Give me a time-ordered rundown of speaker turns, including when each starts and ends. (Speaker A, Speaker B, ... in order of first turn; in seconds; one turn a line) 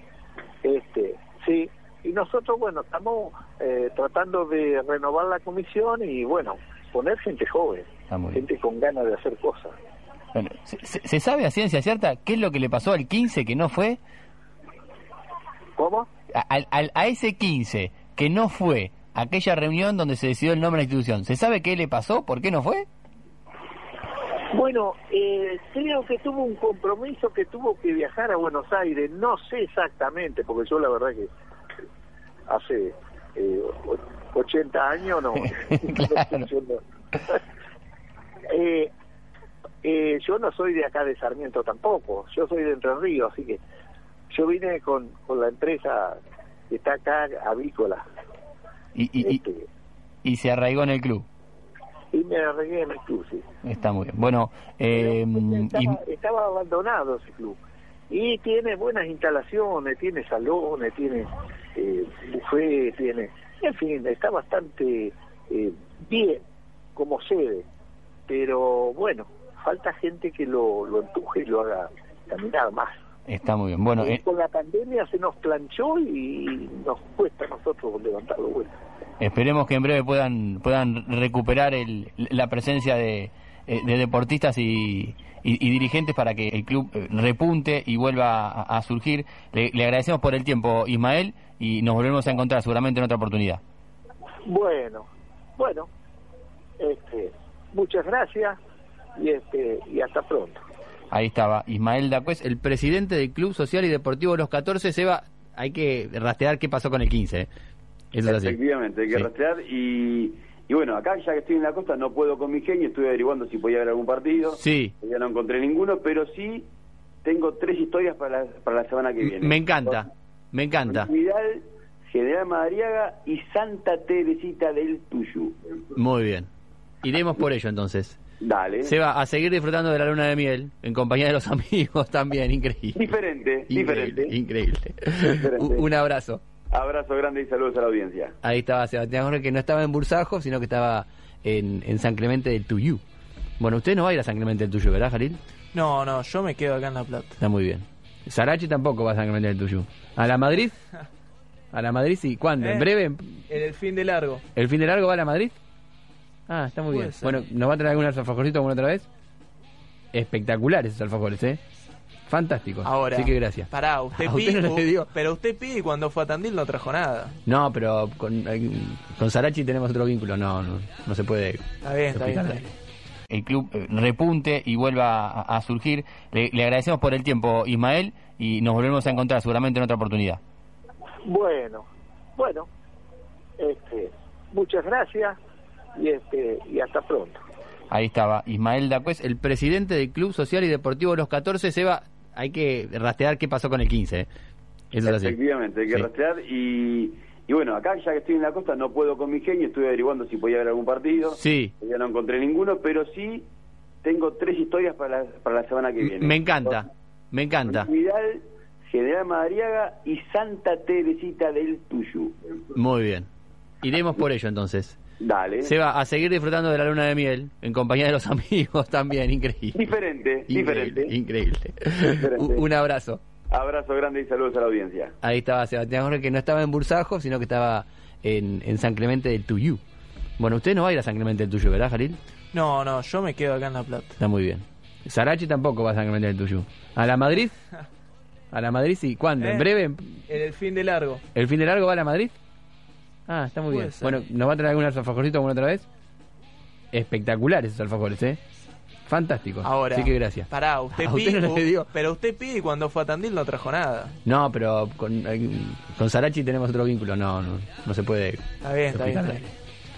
Speaker A: 0.6-9.7
Speaker B: 8.1-8.4
Speaker B: 10.3-14.0
Speaker A: 15.8-16.1
Speaker B: 16.3-22.9
Speaker A: 24.5-31.3
Speaker A: 32.5-37.4
Speaker A: 38.5-38.9
Speaker A: 39.8-43.6
Speaker A: 44.3-46.2
Speaker A: 46.7-48.0
Speaker B: 49.0-49.4
Speaker A: 49.2-49.7
Speaker B: 50.2-51.3
Speaker A: 52.1-53.4
Speaker B: 53.6-56.0
Speaker A: 54.9-57.6
Speaker A: 58.1-66.4
Speaker A: 67.0-67.7
Speaker A: 68.3-72.9
Speaker B: 73.3-74.2
Speaker A: 74.0-78.7
Speaker B: 79.2-93.6
Speaker A: 94.5-95.9
Speaker A: 96.8-98.6
Speaker A: 99.2-100.6
Speaker B: 101.1-107.5
Speaker B: 108.1-108.6
Speaker C: 108.2-116.7
Speaker B: 114.6-114.9
Speaker C: 117.2-120.0
Speaker B: 119.2-121.1
Speaker C: 120.9-125.6
Speaker B: 126.0-126.5
Speaker B: 127.0-128.2
Speaker C: 128.4-128.9
Speaker B: 128.8-133.1
Speaker C: 132.9-134.4
Speaker B: 133.7-136.4
Speaker C: 135.3-135.9
Speaker C: 136.7-138.3
Speaker B: 138.4-143.0
Speaker B: 143.6-145.4
Speaker D: 145.7-147.4
Speaker B: 147.4-150.8
Speaker B: 151.7-153.4
Speaker D: 152.6-152.9
Speaker D: 153.5-154.4
Speaker B: 154.6-155.5
Speaker B: 156.5-159.1
Speaker D: 156.9-157.4
Speaker B: 160.1-161.6
Speaker B: 162.3-165.1
Speaker D: 162.8-167.3
Speaker B: 167.5-172.7
Speaker D: 171.8-172.7
Speaker B: 173.3-180.4
Speaker A: 181.2-182.7
Speaker A: 183.6-185.4
Speaker A: 186.0-187.4
Speaker B: 187.9-194.3
Speaker B: 194.9-195.4
Speaker C: 195.0-203.5
Speaker B: 201.3-201.7
Speaker C: 204.0-206.8
Speaker B: 206.0-207.9
Speaker C: 207.7-212.4
Speaker B: 212.7-213.3
Speaker B: 213.8-215.0
Speaker C: 215.2-215.7
Speaker B: 215.6-219.9
Speaker C: 219.7-221.2
Speaker B: 220.5-223.2
Speaker C: 222.0-222.7
Speaker C: 223.5-225.1
Speaker B: 225.2-229.8
Speaker B: 230.4-232.2
Speaker D: 232.5-234.2
Speaker B: 234.2-237.6
Speaker B: 238.5-240.2
Speaker D: 239.4-239.7
Speaker D: 240.3-241.2
Speaker B: 241.3-242.3
Speaker B: 243.3-245.9
Speaker D: 243.7-244.2
Speaker B: 246.9-248.4
Speaker B: 249.1-251.9
Speaker D: 249.6-254.1
Speaker B: 254.2-259.5
Speaker D: 258.6-259.5